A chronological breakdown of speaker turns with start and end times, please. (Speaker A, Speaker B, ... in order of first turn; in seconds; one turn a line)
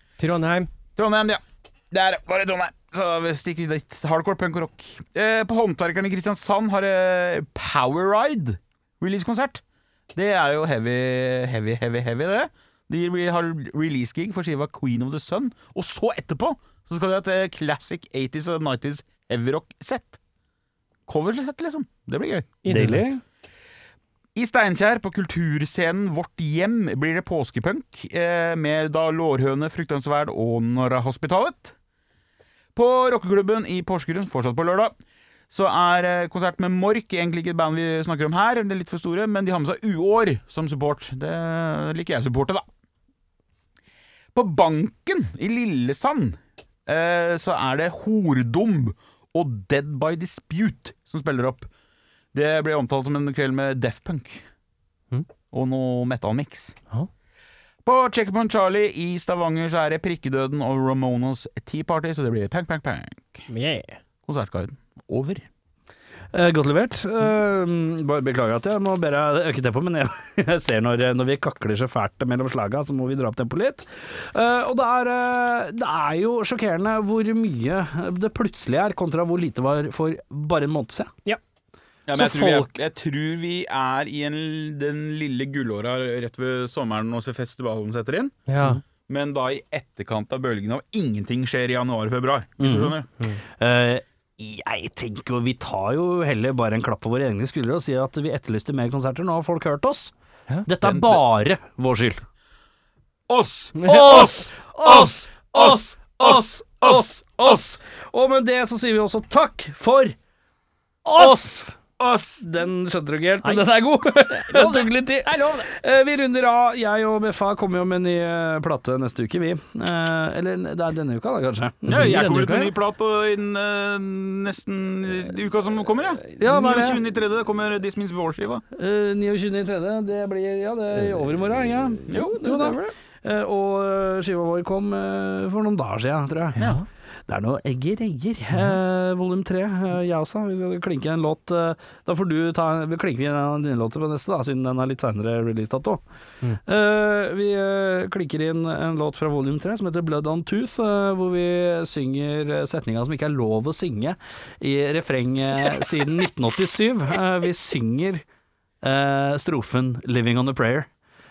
Speaker A: 0.2-0.7
Speaker B: 1.0-9.6
Speaker B: 10.1-20.2
Speaker B: 21.1-22.6
Speaker A: 22.6-23.1
Speaker C: 22.7-23.2
Speaker B: 24.4-31.8
Speaker B: 32.8-34.9
Speaker B: 35.5-42.7
Speaker B: 44.4-51.7
Speaker B: 52.3-54.5
Speaker B: 55.5-56.8
Speaker B: 57.9-63.5
Speaker A: 63.5-64.0
Speaker B: 64.2-65.5
Speaker C: 66.3-81.1
Speaker B: 82.1-88.4
Speaker C: 82.1-82.7
Speaker A: 88.5-88.8
Speaker B: 89.1-93.1
Speaker C: 92.6-93.0
Speaker C: 93.5-100.1
Speaker C: 100.7-102.2
Speaker B: 100.8-101.2
Speaker B: 103.3-107.6
Speaker A: 103.8-104.3
Speaker C: 103.8-110.2
Speaker C: 111.2-111.7
Speaker A: 111.2-111.5
Speaker B: 111.9-112.4
Speaker C: 112.4-122.1
Speaker A: 114.3-115.7
Speaker B: 121.9-128.6
Speaker A: 121.9-122.7
Speaker C: 126.4-127.0
Speaker C: 128.8-136.6
Speaker B: 132.1-132.6
Speaker A: 132.1-132.9
Speaker B: 136.6-136.8
Speaker A: 136.6-136.8
Speaker C: 137.3-146.0
Speaker C: 146.6-158.2
Speaker C: 158.8-160.9